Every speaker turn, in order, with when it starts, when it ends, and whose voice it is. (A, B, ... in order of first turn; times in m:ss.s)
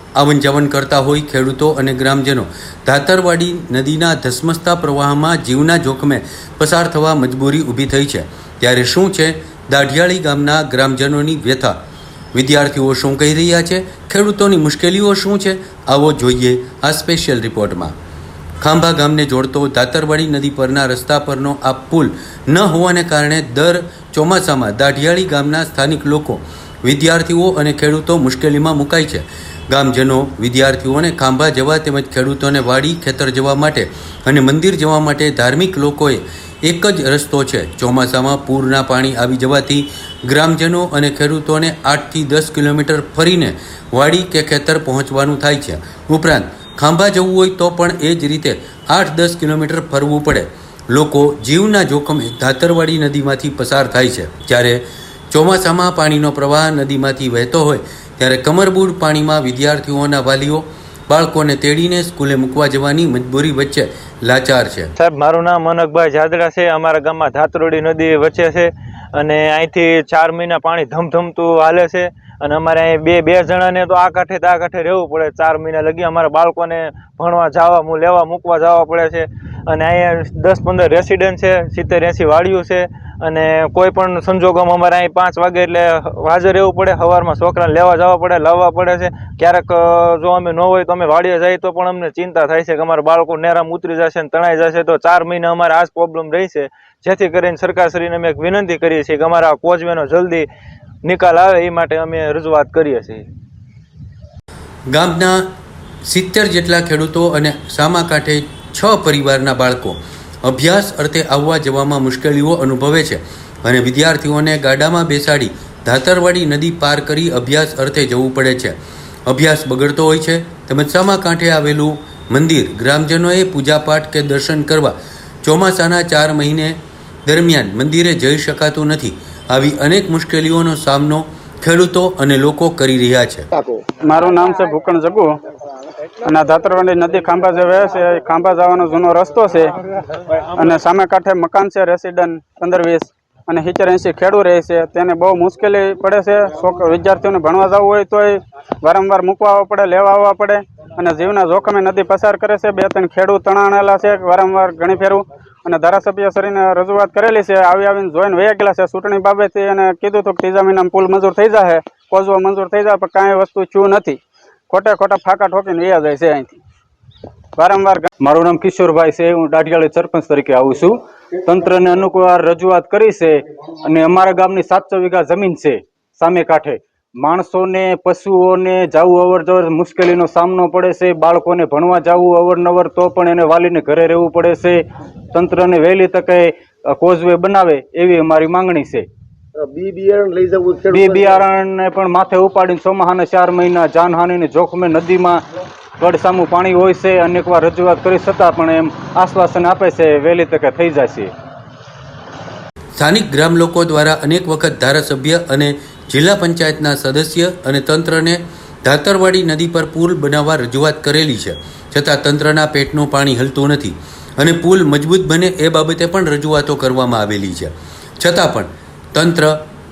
0:00.2-0:11.8 A
0:12.3-0:17.9 A
0:18.6-1:04.9 A
1:05.0-1:40.5 B
1:41.0-1:43.2 B
1:44.9-1:45.5 A
1:46.0-2:13.4 A
2:13.5-2:13.8 C
2:14.0-2:15.3 D
2:16.2-2:19.7 D
2:20.6-2:44.2 D
2:44.7-2:46.6 D
2:47.6-2:48.1 D
2:48.2-3:09.0 E
3:09.6-3:11.4 C
3:10.9-3:15.4 E
3:16.0-3:21.3 E
3:23.0-3:39.6 A